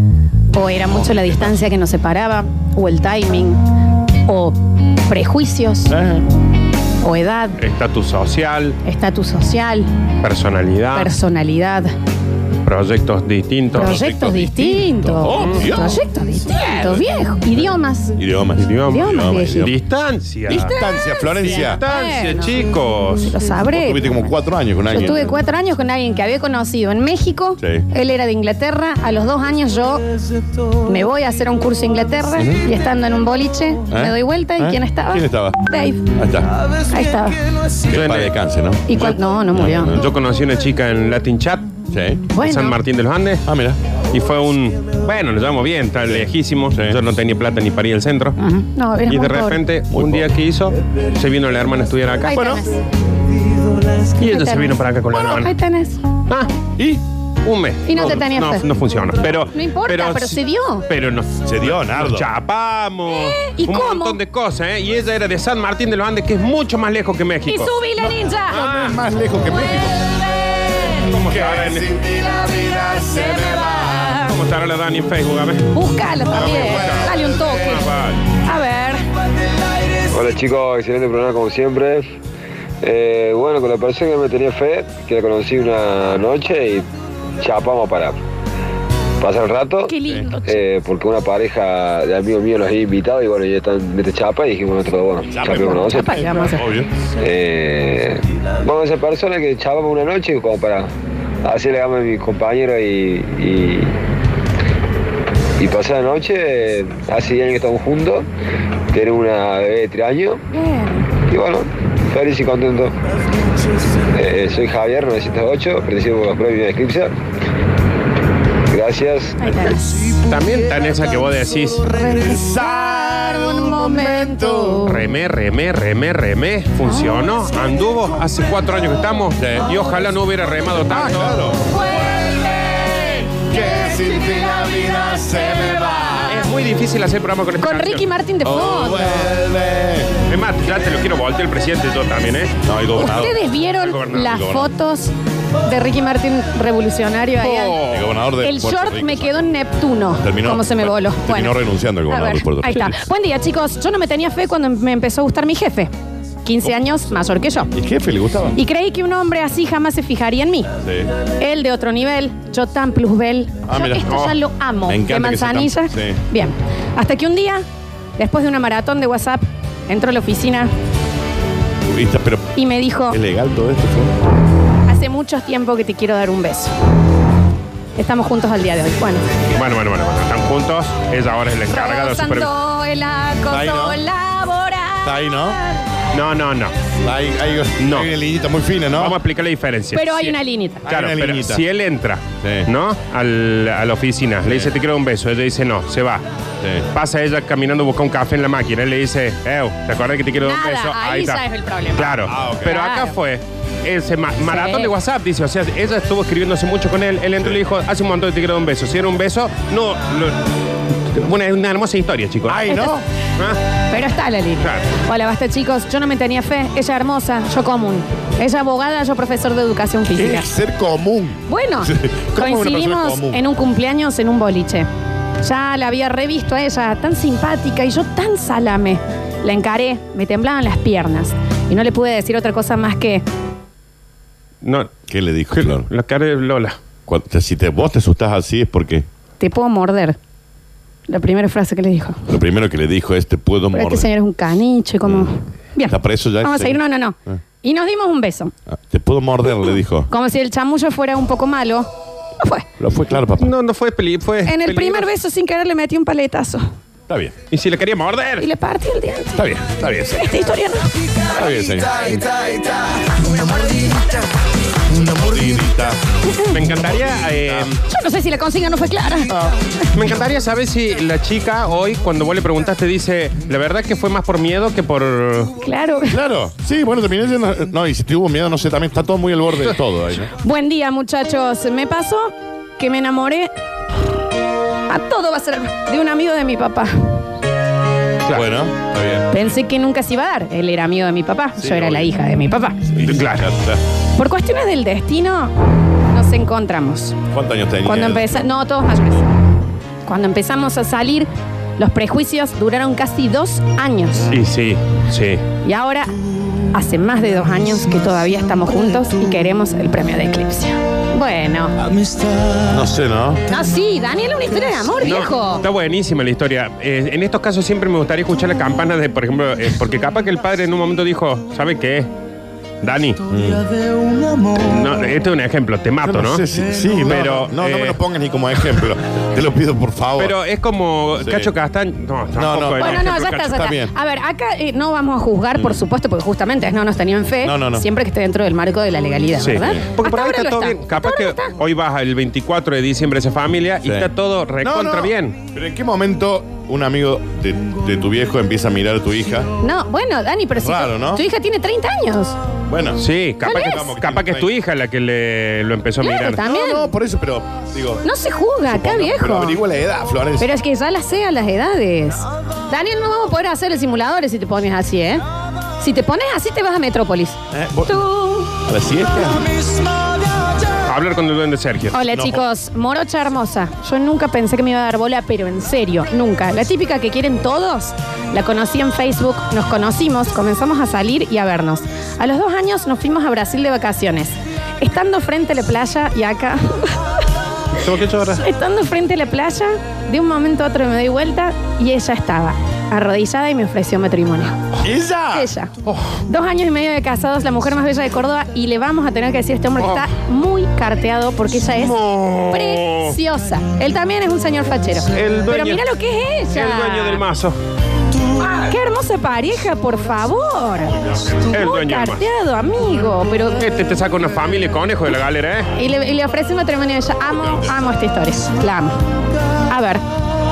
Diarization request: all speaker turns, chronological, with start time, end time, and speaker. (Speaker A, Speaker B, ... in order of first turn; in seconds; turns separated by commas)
Speaker A: 0.5-3.6, Speaker A: 4.3-4.6, Speaker A: 5.1-6.0, Speaker B: 5.9-6.2, Speaker A: 7.0-7.6, Speaker C: 7.6-8.8, Speaker A: 8.8-9.9, Speaker C: 10.2-11.1, Speaker A: 10.9-11.9, Speaker C: 12.7-14.1, Speaker A: 13.7-18.2, Speaker B: 13.9-16.0, Speaker C: 15.3-15.6, Speaker B: 18.2-19.7, Speaker C: 18.6-20.8, Speaker A: 18.9-19.7, Speaker A: 20.5-22.6, Speaker B: 20.6-21.8, Speaker C: 21.4-23.3, Speaker A: 23.2-24.4, Speaker B: 23.7-25.4, Speaker A: 24.9-30.0, Speaker B: 27.6-27.9, Speaker A: 30.9-36.1, Speaker B: 32.4-32.6, Speaker B: 33.9-35.6, Speaker B: 36.2-36.5, Speaker A: 36.9-37.4, Speaker B: 37.9-40.1, Speaker C: 37.9-38.3, Speaker A: 38.9-39.9, Speaker C: 40.0-41.8, Speaker B: 41.9-42.2, Speaker A: 42.3-42.8, Speaker C: 42.4-43.4, Speaker B: 43.5-43.8, Speaker C: 44.1-48.4, Speaker B: 46.1-47.0, Speaker A: 48.4-49.6, Speaker C: 49.1-52.4, Speaker B: 49.9-50.3, Speaker A: 52.3-52.8, Speaker B: 52.3-52.6, Speaker C: 54.2-55.5, Speaker A: 54.2-56.0, Speaker C: 57.5-67.7, Speaker A: 57.9-58.6, Speaker A: 59.5-60.9, Speaker B: 61.5-62.3, Speaker A: 63.4-64.2, Speaker A: 67.5-68.7, Speaker B: 68.0-70.1, Speaker C: 68.5-69.0, Speaker A: 70.6-70.9, Speaker C: 71.1-71.9, Speaker B: 71.2-73.9, Speaker A: 72.2-74.3, Speaker C: 74.2-75.8, Speaker A: 75.7-77.9, Speaker C: 76.3-78.2, Speaker B: 76.3-77.4, Speaker A: 78.4-79.0, Speaker D: 80.1-82.1, Speaker D: 82.8-86.9, Speaker D: 87.4-88.2, Speaker D: 89.2-89.9, Speaker A: 89.9-90.6, Speaker D: 90.5-96.1, Speaker B: 95.3-96.9, Speaker A: 95.4-96.7, Speaker D: 97.2-100.9, Speaker D: 101.4-103.9, Speaker D: 105.6-108.3, Speaker D: 108.9-110.4, Speaker A: 110.5-111.1, Speaker D: 111.3-113.0, Speaker D: 114.1-117.1, Speaker D: 118.7-119.4, Speaker A: 119.4-119.9, Speaker C: 120.3-122.0, Speaker A: 122.0-125.0, Speaker B: 122.2-124.9, Speaker C: 124.9-131.4, Speaker B: 129.4-129.7, Speaker B: 130.8-136.4, Speaker A: 131.7-132.8, Speaker A: 134.3-136.2, Speaker C: 136.3-138.1, Speaker A: 137.6-139.3, Speaker B: 138.4-140.2, Speaker C: 140.3-142.6, Speaker B: 142.6-143.4, Speaker A: 143.0-145.1, Speaker C: 143.8-144.4, Speaker B: 144.3-144.7, Speaker A: 145.7-147.8, Speaker C: 147.4-148.1, Speaker B: 147.9-149.5, Speaker A: 148.4-155.9, Speaker B: 150.2-152.9, Speaker A: 156.4-157.7, Speaker B: 157.7-158.6, Speaker A: 158.6-160.7, Speaker B: 160.8-161.1, Speaker A: 161.4-167.7, Speaker B: 163.7-164.1, Speaker C: 164.1-164.4, Speaker B: 164.9-166.2, Speaker A: 168.2-170.7, Speaker B: 171.9-172.5, Speaker A: 172.6-173.2, Speaker B: 173.1-174.2, Speaker A: 174.9-176.7, Speaker A: 178.0-179.3, Speaker C: 179.5-182.5, Speaker A: 181.7-185.6, Speaker B: 183.5-184.0, Speaker B: 185.0-185.6, Speaker C: 186.1-186.7, Speaker B: 187.1-189.2, Speaker C: 187.8-188.1, Speaker C: 188.9-196.2, Speaker A: 189.9-190.8, Speaker B: 190.9-191.6, Speaker B: 192.4-192.7, Speaker B: 194.4-194.7, Speaker B: 196.6-196.9, Speaker C: 196.9-201.4, Speaker A: 200.4-203.1, Speaker C: 202.0-210.5, Speaker B: 202.3-202.7, Speaker A: 204.5-204.9, Speaker C: 211.0-212.8, Speaker B: 212.5-213.0, Speaker A: 212.7-213.0, Speaker A: 213.9-220.5, Speaker C: 214.6-214.9, Speaker B: 220.2-223.4, Speaker A: 221.5-224.9, Speaker A: 225.4-233.2, Speaker C: 234.6-235.0, Speaker B: 235.1-235.9, Speaker C: 235.5-236.8, Speaker B: 237.1-239.1, Speaker A: 239.4-240.2, Speaker A: 241.1-242.3, Speaker B: 242.3-244.1, Speaker A: 243.7-248.5, Speaker B: 245.9-247.4, Speaker B: 248.7-250.1, Speaker A: 250.1-251.9, Speaker A: 252.4-252.7, Speaker B: 252.8-253.5, Speaker C: 253.4-255.1, Speaker A: 254.5-256.7, Speaker B: 257.1-257.4, Speaker C: 257.5-258.5, Speaker A: 258.4-259.4, Speaker B: 259.4-260.2, Speaker C: 259.5-259.8, Speaker A: 260.1-260.9, Speaker B: 261.3-262.2, Speaker B: 264.9-266.0, Speaker C: 266.5-267.8, Speaker B: 266.9-267.7, Speaker A: 267.9-269.3, Speaker C: 269.9-275.5, Speaker A: 275.6-276.2, Speaker B: 276.1-280.3, Speaker A: 280.4-283.5, Speaker A: 284.9-287.1, Speaker B: 288.3-289.3, Speaker A: 289.3-292.8, Speaker B: 291.6-292.1, Speaker B: 293.0-293.8, Speaker C: 293.0-293.5, Speaker A: 294.2-295.5, Speaker A: 296.1-297.2, Speaker B: 297.3-298.4, Speaker A: 297.9-299.3, Speaker A: 300.1-304.3, Speaker C: 304.3-305.4, Speaker A: 305.6-306.1, Speaker A: 306.7-311.8, Speaker B: 312.6-313.4, Speaker A: 313.5-315.6, Speaker C: 315.0-322.1, Speaker C: 322.8-323.2, Speaker B: 323.3-323.7, Speaker C: 324.6-326.4, Speaker B: 326.0-330.4, Speaker C: 327.0-328.0, Speaker C: 330.2-333.4, Speaker B: 331.2-331.5, Speaker B: 332.4-333.9, Speaker A: 332.8-341.5, Speaker B: 337.4-337.9, Speaker C: 339.4-345.4, Speaker B: 343.8-344.1, Speaker B: 344.6-349.5, Speaker A: 349.6-352.4, Speaker B: 350.6-351.2, Speaker B: 352.7-353.0, Speaker C: 353.0-356.4, Speaker A: 353.4-353.9, Speaker B: 353.6-354.5, Speaker A: 356.0-356.9, Speaker B: 356.4-358.0, Speaker A: 358.0-359.6, Speaker B: 358.7-360.5, Speaker A: 360.4-365.2, Speaker A: 365.8-368.5, Speaker B: 367.5-368.1, Speaker B: 368.6-369.5, Speaker C: 370.9-372.0, Speaker A: 371.9-387.0, Speaker B: 372.1-372.4, Speaker C: 387.8-388.4, Speaker A: 388.4-394.6, Speaker B: 394.8-395.5, Speaker A: 395.3-395.7, Speaker C: 395.9-396.2, Speaker A: 396.3-402.0, Speaker C: 399.8-400.1, Speaker C: 401.8-403.2, Speaker A: 402.5-407.2, Speaker C: 405.1-405.8, Speaker C: 406.5-407.6, Speaker A: 408.4-410.9, Speaker A: 411.5-413.6, Speaker C: 411.5-412.3, Speaker C: 413.6-415.7, Speaker A: 415.8-419.0, Speaker A: 419.7-420.0